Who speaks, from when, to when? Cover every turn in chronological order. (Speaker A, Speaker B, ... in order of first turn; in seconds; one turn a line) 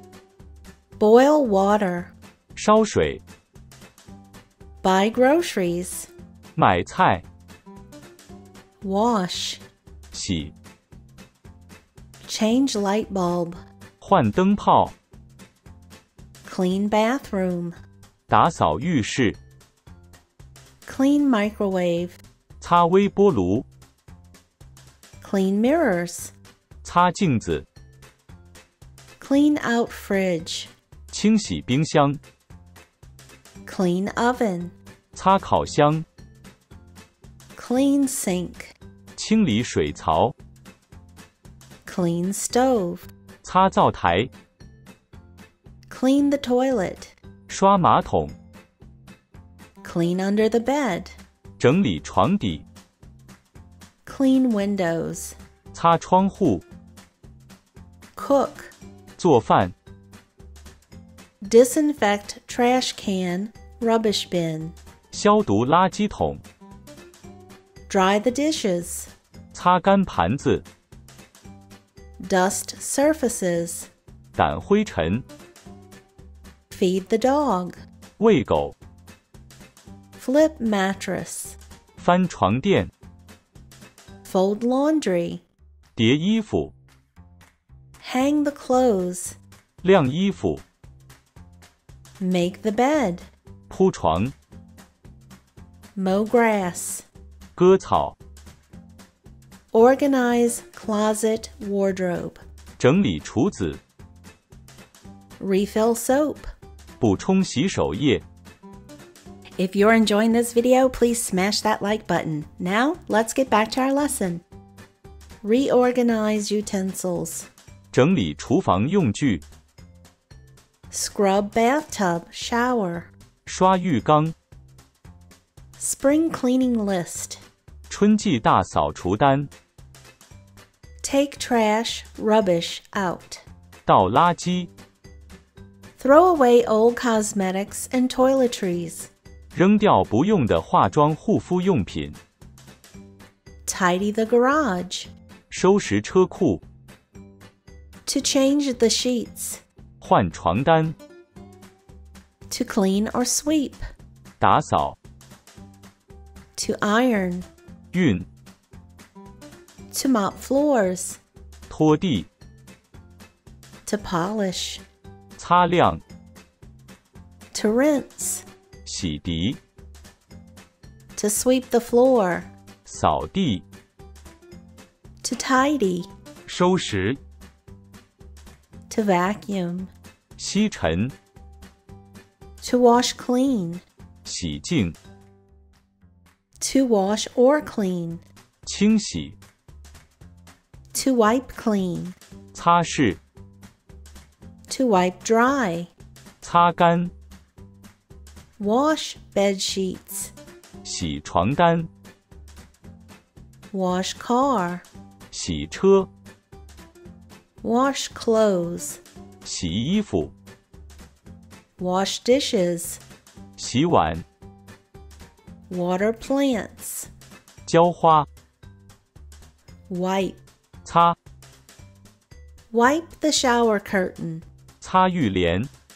Speaker A: 1.0-2.1
Speaker B: 2.6-3.2
Speaker A: 4.8-6.1
Speaker B: 6.6-7.2
Speaker A: 8.8-9.6
Speaker B: 10.1-10.5
Speaker A: 12.2-13.6
Speaker B: 14.0-14.9
Speaker A: 16.4-17.8
Speaker B: 18.3-19.4
Speaker A: 20.9-22.2
Speaker B: 22.6-23.7
Speaker A: 25.2-26.3
Speaker B: 26.8-27.7
Speaker A: 29.2-30.7
Speaker B: 31.1-32.2
Speaker A: 33.7-34.8
Speaker B: 35.1-36.1
Speaker A: 37.6-38.8
Speaker B: 39.2-40.4
Speaker A: 41.9-43.1
Speaker B: 43.4-44.3
Speaker A: 45.9-47.1
Speaker B: 47.5-48.4
Speaker A: 49.8-51.2
Speaker B: 51.6-52.6
Speaker A: 54.1-55.4
Speaker B: 55.7-56.6
Speaker A: 58.2-58.7
Speaker B: 59.2-59.7
Speaker A: 61.4-64.8
Speaker B: 65.1-66.4
Speaker A: 67.9-69.1
Speaker B: 69.5-70.7
Speaker A: 72.2-73.9
Speaker B: 74.3-75.2
Speaker A: 76.7-77.8
Speaker B: 78.2-78.8
Speaker A: 80.2-81.6
Speaker B: 82.0-82.9
Speaker A: 84.2-85.5
Speaker B: 86.0-86.7
Speaker A: 88.0-89.4
Speaker B: 89.8-90.6
Speaker A: 92.2-93.3
Speaker B: 93.7-94.3
Speaker A: 96.0-97.1
Speaker B: 97.6-98.2
Speaker A: 99.7-102.4
Speaker B: 102.8-103.8
Speaker A: 105.4-106.5
Speaker B: 107.0-108.2
Speaker A: 109.6-114.4
Speaker A: 115.4-117.5
Speaker B: 117.9-119.4
Speaker A: 120.9-123.1
Speaker B: 123.5-124.3
Speaker A: 125.8-127.4
Speaker B: 127.9-129.5
Speaker A: 131.0-133.4
Speaker B: 133.9-134.7
Speaker A: 136.0-139.1
Speaker B: 139.5-142.2
Speaker A: 143.7-145.1
Speaker B: 145.5-146.6
Speaker A: 148.1-149.6
Speaker B: 150.0-151.0
Speaker A: 152.5-153.8
Speaker B: 154.4-155.0
Speaker A: 156.6-157.5
Speaker B: 157.9-158.3
Speaker A: 159.9-161.2
Speaker B: 161.7-162.3
Speaker A: 163.9-164.8
Speaker B: 165.4-166.0
Speaker A: 167.5-168.5
Speaker B: 168.9-169.6
Speaker A: 171.2-172.5
Speaker B: 172.9-173.6
Speaker A: 175.2-176.1
Speaker B: 176.5-177.2
Speaker A: 178.9-179.9
Speaker B: 180.4-181.1
Speaker A: 182.6-183.8
Speaker B: 184.2-185.0
Speaker A: 186.6-188.2
Speaker B: 188.7-189.4
Speaker A: 190.9-192.2
Speaker B: 192.5-193.2
Speaker A: 194.7-195.9
Speaker B: 196.4-197.1
Speaker A: 198.6-200.3
Speaker B: 200.8-201.9
Speaker A: 203.7-204.9
Speaker B: 205.3-206.1
Speaker A: 207.6-209.0
Speaker B: 209.4-210.3
Speaker A: 211.8-213.0
Speaker B: 213.6-214.2
Speaker A: 215.7-217.1
Speaker B: 217.7-218.3
Speaker A: 219.9-220.4
Speaker B: 220.8-221.2
Speaker A: 222.7-224.4
Speaker B: 224.8-225.7